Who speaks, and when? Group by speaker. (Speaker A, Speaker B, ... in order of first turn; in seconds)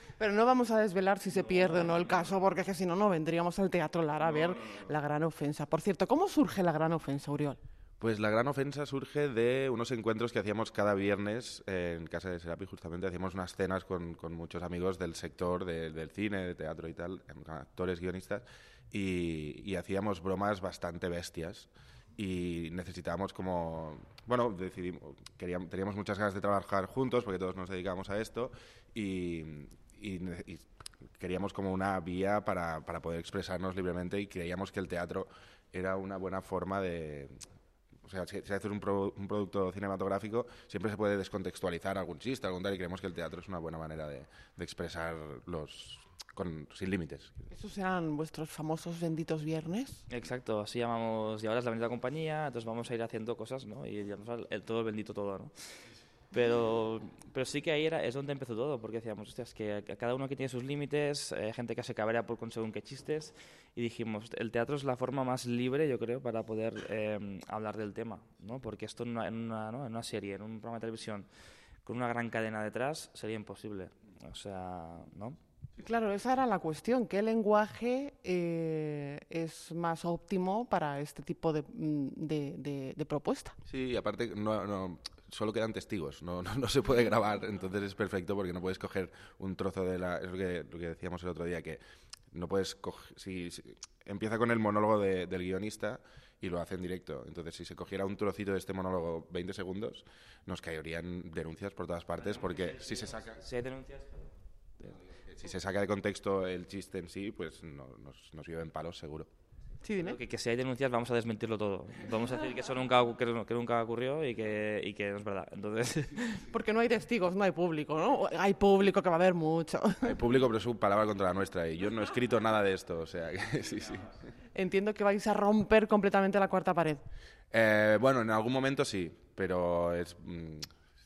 Speaker A: 0.2-7.6, 47.5-50.0, 75.8-83.6, 109.8-110.2, 116.5-120.1, 124.5-127.0
Speaker B: 8.0-37.5, 38.0-47.5, 83.7-103.4, 105.1-109.3, 120.0-124.1, 127.5-130.7
Speaker C: 50.1-71.3, 71.8-75.4, 102.3-104.9, 110.0-116.4